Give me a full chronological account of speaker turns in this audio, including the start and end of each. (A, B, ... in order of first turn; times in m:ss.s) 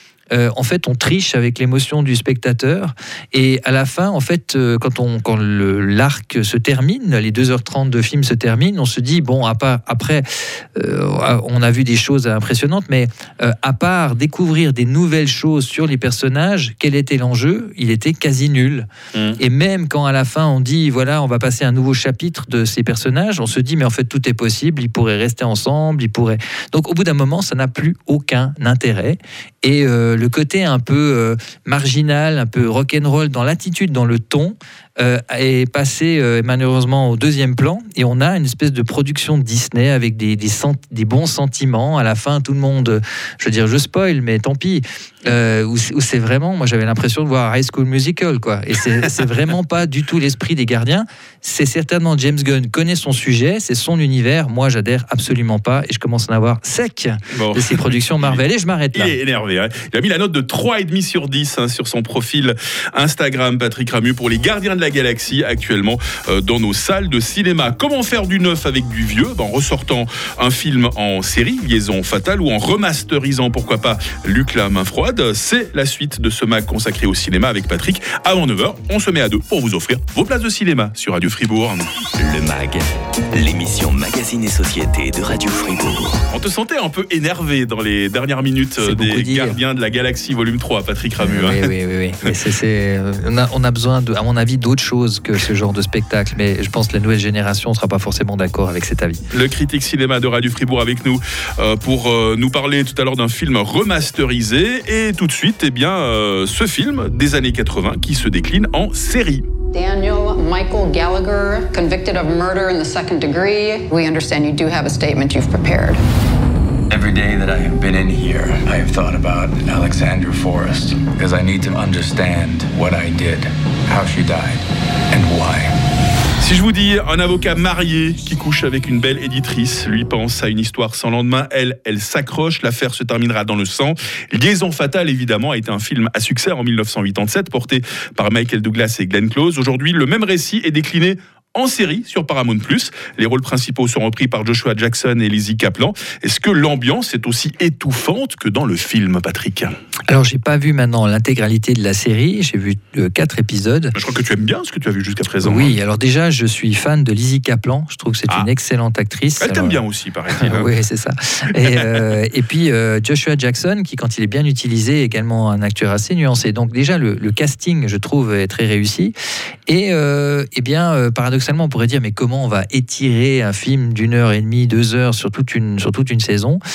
0:00.3-0:18.9 A
0:19.1-0:19.4 B
0:19.4-0:59.2 A
0:57.3-0:58.4 B
0:58.9-1:21.8 B
1:22.2-1:26.2 C
1:26.3-1:31.7 B
1:28.8-1:29.6 A
1:31.2-1:39.2 A
1:39.3-1:49.5 B
1:49.7-1:56.0 D
1:56.9-2:05.7 E
2:06.4-2:29.7 B
2:30.1-2:33.9 A
2:34.0-2:35.8 B
2:35.4-2:39.8 A
2:39.4-2:40.7 B
2:40.3-2:49.2 A
2:49.7-2:56.6 A